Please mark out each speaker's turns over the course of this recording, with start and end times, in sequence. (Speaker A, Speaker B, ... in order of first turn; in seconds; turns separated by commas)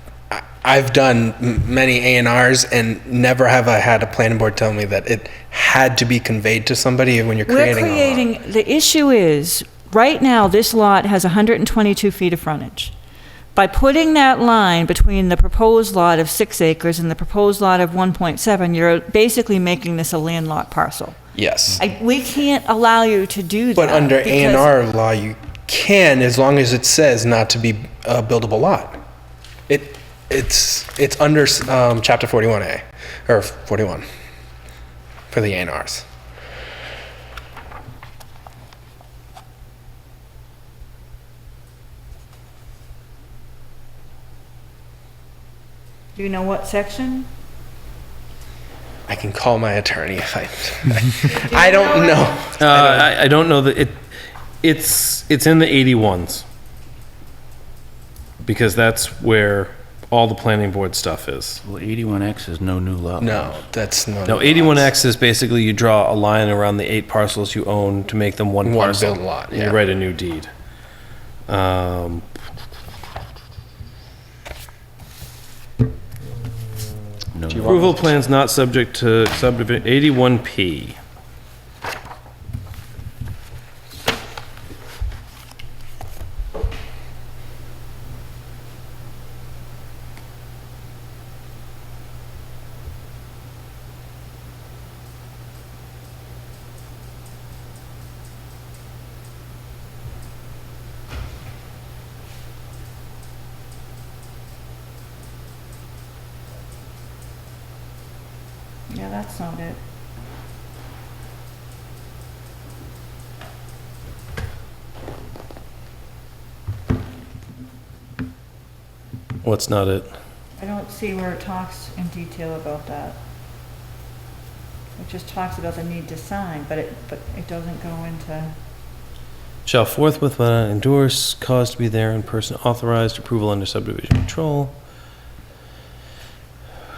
Speaker A: 0.3-8.3, Speaker B: 7.5-12.9, Speaker B: 13.5-21.2, Speaker A: 21.3-21.8, Speaker B: 21.8-24.7, Speaker A: 23.8-29.0, Speaker A: 29.7-34.0, Speaker A: 35.3-36.0, Speaker B: 46.1-47.3, Speaker A: 49.1-53.1, Speaker B: 51.2-52.5, Speaker C: 52.6-54.0, Speaker C: 54.6-56.4, Speaker C: 58.4-61.6, Speaker D: 61.6-63.7, Speaker A: 63.2-64.9, Speaker C: 64.2-70.5, Speaker A: 68.6-69.8, Speaker C: 71.5-72.2, Speaker D: 77.3-77.8, Speaker A: 77.5-78.0, Speaker C: 77.6-81.0, Speaker B: 108.9-109.8, Speaker C: 119.4-120.1, Speaker B: 120.6-123.2, Speaker B: 125.0-128.5, Speaker C: 129.7-134.7